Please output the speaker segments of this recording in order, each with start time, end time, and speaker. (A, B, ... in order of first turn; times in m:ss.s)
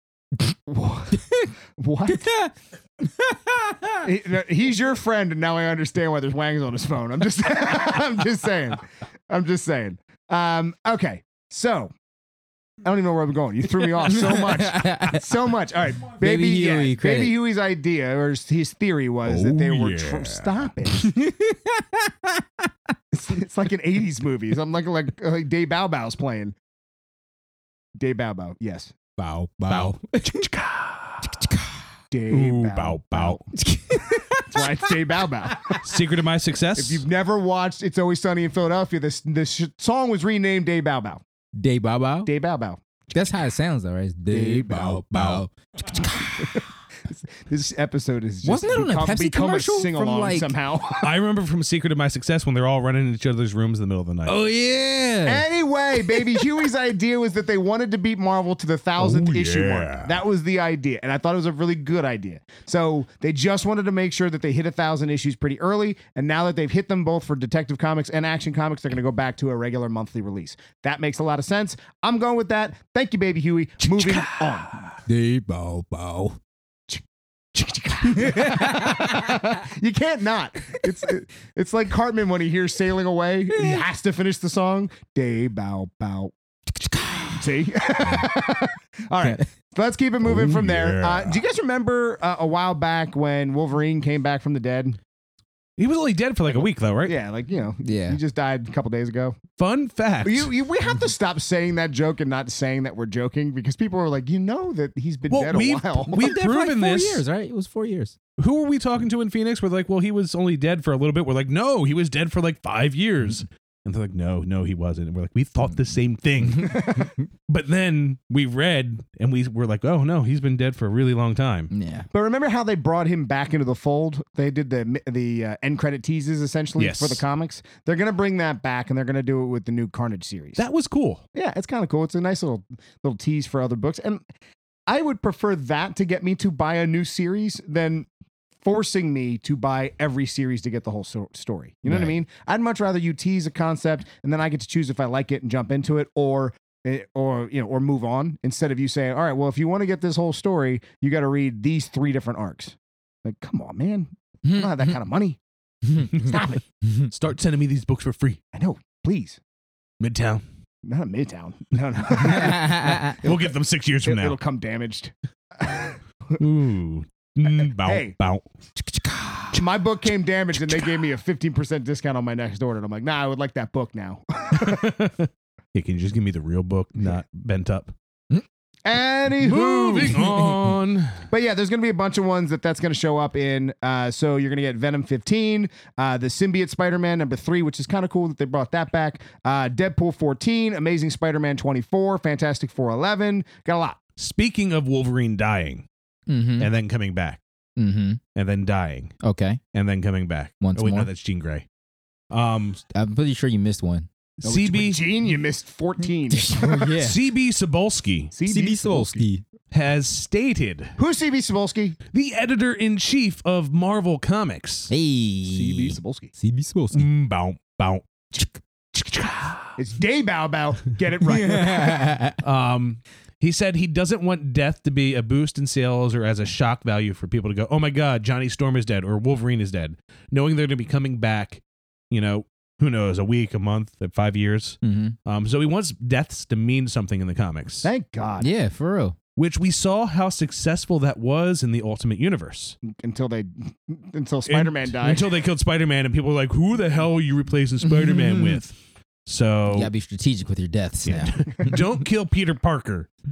0:00.6-0:02.3 A
0:02.1-0:04.0 B
0:04.0-0:11.9 A
0:12.8-0:21.0 A
0:14.1-0:15.2 B
0:16.2-0:17.3 B
0:19.2-0:20.7 C
0:21.0-0:22.7 B
0:23.1-0:26.5 A
0:28.0-0:28.9 A
0:29.2-0:30.4 B
0:29.7-0:31.5 C
0:31.4-0:31.7 B
0:32.1-0:33.4 A
0:32.3-0:33.4 C
0:33.5-0:34.9 B
0:34.4-0:35.8 A
0:35.8-0:37.0 C
0:36.7-0:41.2 A
0:41.6-0:42.3 B
0:42.2-0:42.8 A
0:43.1-0:46.7 B
0:44.3-0:45.4 A
0:45.9-0:51.1 A
0:48.4-0:50.5 B
0:51.0-0:54.4 C
0:54.2-0:55.4 B
0:55.2-1:14.7 A
0:56.1-0:56.4 B
0:59.0-1:00.2 C
1:13.8-1:15.0 C
1:15.0-1:16.4 B
1:17.5-1:26.3 A
1:18.2-1:19.4 B
1:23.5-1:23.8 B
1:27.0-1:27.4 B
1:27.2-1:35.0 A
1:30.2-1:31.4 C
1:35.8-1:37.1 C
1:37.0-1:39.4 A
1:37.8-1:38.2 B
1:39.6-1:40.5 C
1:40.2-1:46.3 A
1:45.3-1:47.2 C
1:46.1-1:48.2 B
1:48.4-2:01.7 C
2:01.7-2:02.1 B
2:02.1-2:10.6 A
2:06.8-2:07.2 C
2:10.6-2:11.2 C
2:11.3-2:14.2 A
2:14.9-2:18.1 A
2:18.6-2:35.4 A
2:21.9-2:22.1 B
2:34.4-2:34.9 B
2:36.1-2:36.5 C
2:36.2-2:36.6 A
2:37.1-2:38.4 C
2:38.5-2:39.4 A
2:40.0-2:40.4 C
2:40.8-2:46.4 A
2:42.3-2:43.2 B
2:43.1-2:44.4 C
2:46.4-2:48.4 C
2:47.7-2:48.1 A
2:49.1-2:49.5 B
2:49.5-2:54.9 A
2:54.6-2:57.9 C
2:58.8-3:00.2 A
2:59.4-3:01.2 C
3:00.2-3:00.5 B
3:01.3-3:14.0 A
3:14.2-3:15.8 C
3:16.3-3:16.7 B
3:16.6-3:17.4 C
3:17.8-3:18.2 B
3:18.3-3:19.1 C
3:19.2-3:19.6 B
3:19.7-3:21.6 C
3:20.6-3:21.1 B
3:22.3-3:22.8 C
3:22.9-3:24.1 B
3:24.4-3:25.0 C
3:24.4-3:26.9 A
3:26.3-3:27.2 B
3:27.0-3:28.3 C
3:28.3-3:29.3 A
3:28.4-3:29.4 B
3:29.7-3:31.0 C
3:31.0-3:32.0 A
3:32.1-3:34.9 C
3:34.9-3:37.0 B
3:35.4-3:36.3 A
3:36.9-3:39.8 C
3:39.8-3:42.1 A
3:41.3-3:42.4 B
3:42.4-3:57.9 C
3:54.8-3:55.2 B
3:57.8-3:58.5 A
3:58.4-3:59.2 B
3:59.4-4:02.8 C
4:02.8-4:05.3 A
4:04.5-4:09.9 C
4:07.8-4:08.6 B
4:09.7-4:11.8 B
4:11.0-4:13.1 C